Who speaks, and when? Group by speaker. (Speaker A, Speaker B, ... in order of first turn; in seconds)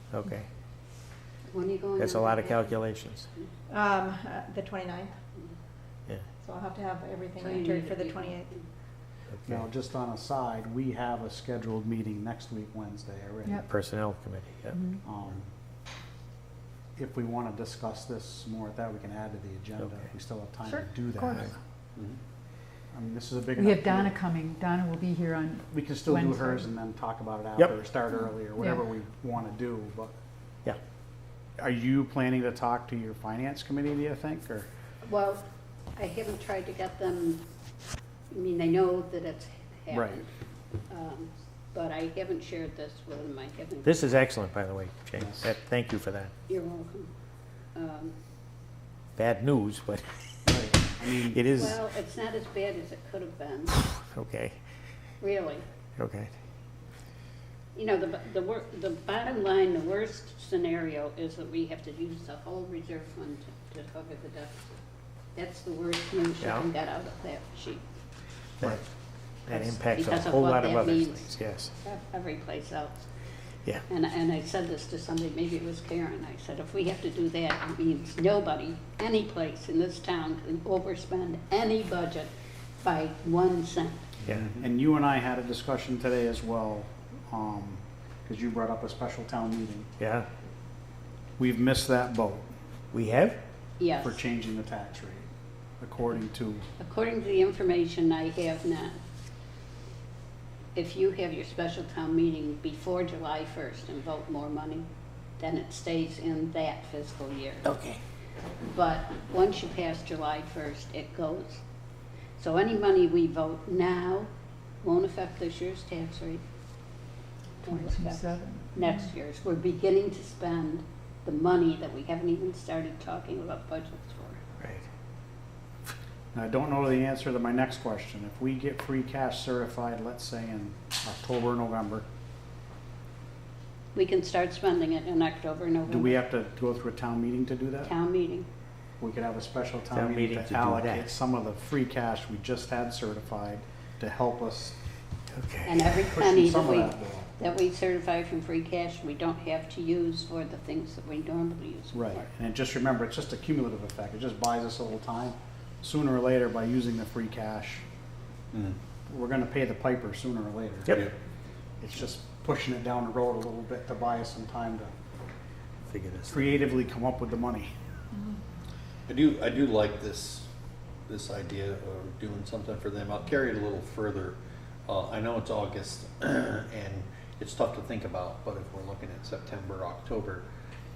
Speaker A: 0.1-0.5, 2.0-3.3, 9.3-9.6, 13.7-14.8, 43.8-46.3, 49.2-50.1, 51.3-51.8, 54.1-54.6, 56.0-56.3, 66.4-66.7, 68.6-68.8, 69.5-71.7, 90.0-90.3, 92.9-93.4, 107.7-108.0, 124.6-124.9, 139.9-141.1, 145.3-145.9, 165.9-166.6
Speaker B: 1.5-2.7, 7.4-8.7, 35.0-35.5, 36.0-37.4, 38.3-40.3, 40.9-44.0, 46.5-47.1, 47.8-48.1, 51.5-53.8, 55.2-55.6, 57.8-64.7, 65.3-67.8, 69.6-73.1, 73.9-84.1, 93.8-94.2, 96.8-99.0, 100.8-104.9, 105.4-107.7, 108.7-111.6, 112.4-114.3, 114.8-116.4, 117.6-124.4, 133.9-136.2, 137.8-138.5, 145.7-152.3
Speaker C: 3.7-5.2, 6.4-8.5, 20.6-21.5
Speaker D: 9.5-13.7, 15.0-15.5, 17.0-21.5, 22.9-24.2, 25.7-30.1, 31.6-34.7, 39.9-40.2, 45.2-45.5, 50.5-51.4, 84.6-89.9, 91.4-92.5, 94.0-95.3, 95.8-96.7, 126.3-132.1, 135.9-137.9, 139.0-144.8, 146.1-147.3, 151.9-157.8, 159.1-161.1, 161.8-164.9, 166.3-167.7
Speaker E: 14.7-15.0, 23.6-26.6, 117.7-118.9
Speaker F: 84.3-84.7, 158.5-158.8, 169.1-170.5, 171.1-180.5